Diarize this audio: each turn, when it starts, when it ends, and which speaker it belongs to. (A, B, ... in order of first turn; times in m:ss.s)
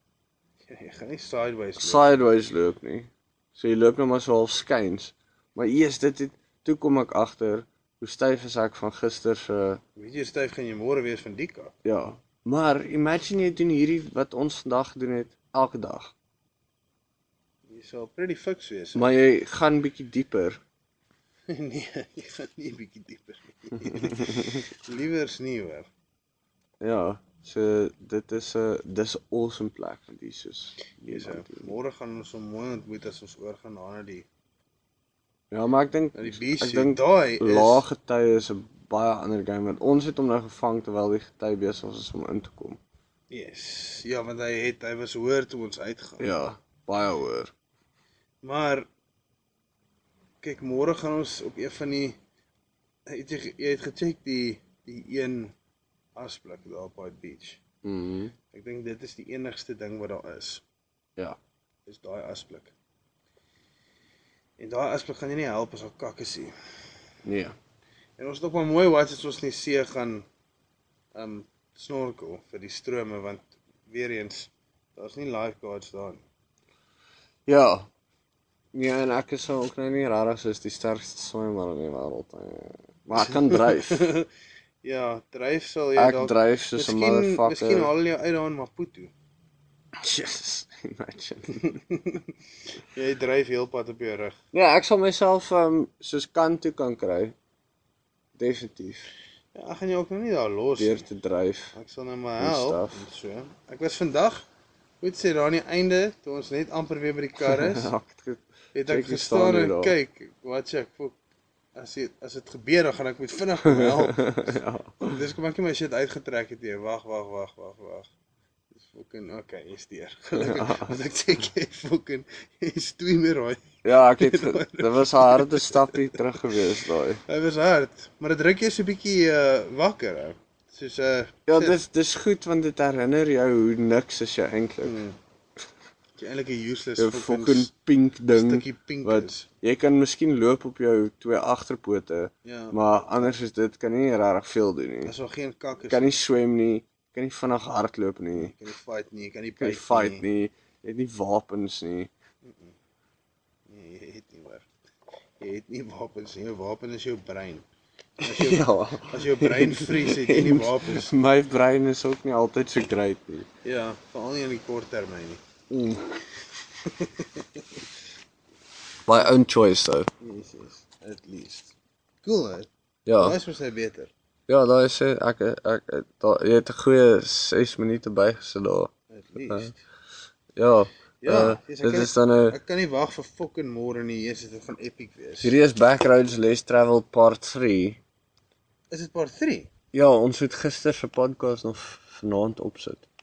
0:00.7-0:02.3 A
0:01.8-0:09.8 B
0:10.0-0:11.7 A
0:11.8-0:16.1 B
0:17.7-0:19.1 A
0:18.9-0:20.6 B
0:21.5-0:25.9 A
0:26.8-0:31.7 B
0:31.0-0:34.3 A
0:35.5-0:42.8 B
0:36.1-0:37.8 A
0:43.3-0:46.3 A
0:46.2-0:47.5 B
0:48.4-0:48.9 A
0:50.4-0:52.2 A
0:53.1-0:55.5 A
0:56.2-0:57.6 A
0:57.8-0:58.3 B
0:58.5-1:00.6 A
1:01.8-1:02.7 A
1:04.6-1:06.5 A
1:07.2-1:07.6 B
1:08.2-1:10.3 A
1:11.1-1:16.2 A
1:17.4-1:17.9 B
1:18.7-1:24.1 B
1:23.2-1:24.2 A
1:24.8-1:29.1 A
1:26.0-1:27.9 B
1:30.0-1:31.8 B
1:31.6-1:32.3 A
1:32.9-1:34.4 A
1:34.5-1:37.3 B
1:38.4-1:39.1 B
1:39.5-1:41.1 A
1:40.8-1:41.7 B
1:41.7-1:44.5 A
1:42.4-1:43.0 B
1:45.0-1:47.9 A
1:47.6-1:50.0 B
1:48.7-1:51.2 A
1:51.7-1:58.1 A
1:53.7-1:55.0 B
1:58.7-2:06.2 A
2:00.4-2:00.7 B
2:03.8-2:07.2 B
2:07.2-2:11.8 A
2:11.5-2:15.0 B
2:14.8-2:15.2 A
2:16.2-2:17.7 A
2:17.0-2:25.1 B
2:18.3-2:19.4 A
2:22.4-2:23.3 A
2:25.0-2:26.2 A
2:25.9-2:28.6 B
2:28.4-2:30.2 A
2:29.6-2:32.1 B
2:32.4-2:32.7 A
2:33.7-2:34.7 A
2:35.4-2:37.6 A
2:38.2-2:41.1 A
2:38.2-2:43.5 B
2:43.6-2:45.4 A
2:45.7-2:46.1 B
2:46.8-2:47.8 A
2:49.0-2:50.1 B
2:50.2-2:54.1 A
2:53.0-2:53.4 B
2:54.5-2:58.9 B
2:59.1-2:59.8 A
3:00.6-3:02.6 B
3:01.2-3:05.6 A
3:05.4-3:08.0 B
3:08.9-3:09.7 A
3:09.9-3:13.0 B